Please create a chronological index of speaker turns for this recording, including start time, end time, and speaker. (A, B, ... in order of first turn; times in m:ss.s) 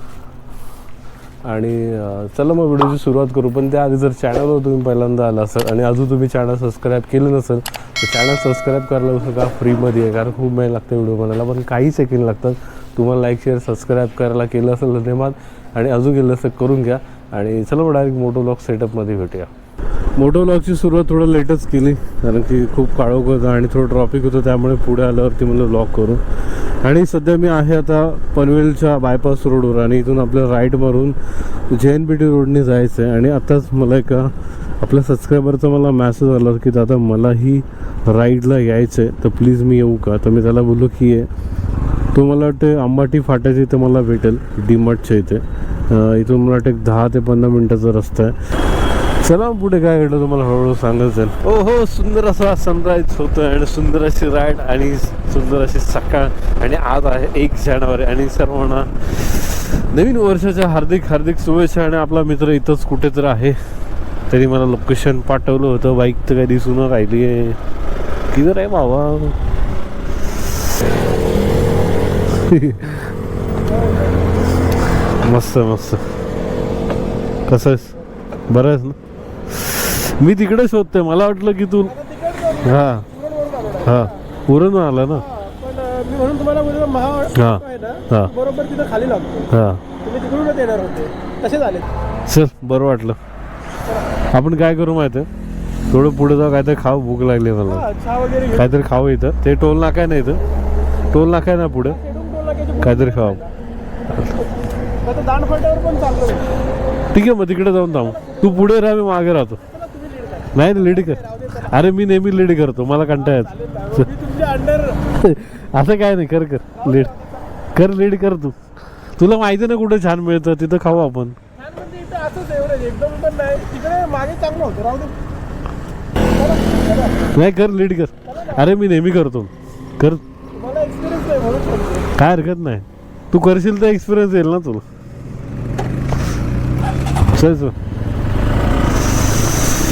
0:01.4-0:19.5 A
0:20.2-0:41.3 A
0:42.1-0:48.4 A
0:49.0-1:03.6 A
1:04.3-1:07.6 A
1:08.3-1:09.4 A
1:12.3-1:13.1 A
1:13.7-1:14.2 B
1:15.0-1:16.1 A
1:17.5-1:18.0 A
1:18.5-1:19.0 A
1:19.5-1:22.0 A
1:21.9-1:24.1 B
1:22.5-1:23.1 A
1:23.8-1:25.3 A
1:25.2-1:29.5 B
1:27.3-1:28.3 A
1:29.5-1:29.8 A
1:30.0-1:31.9 B
1:32.3-1:33.2 A
1:34.3-1:35.3 A
1:35.9-1:37.8 A
1:37.7-1:38.7 B
1:38.5-1:40.4 A
1:41.1-1:42.0 A
1:41.9-1:43.5 B
1:42.8-1:43.4 A
1:45.0-1:46.5 B
1:47.1-1:49.6 A
1:49.8-1:51.7 B
1:50.5-1:54.1 A
1:53.2-1:55.0 B
1:55.1-1:57.2 A
1:57.7-1:58.6 A
1:59.2-2:01.4 A
2:01.6-2:05.2 B
2:06.4-2:07.3 B
2:07.3-2:10.2 A
2:08.3-2:08.6 B
2:10.5-2:12.1 B
2:12.1-2:14.8 A
2:17.3-2:17.8 A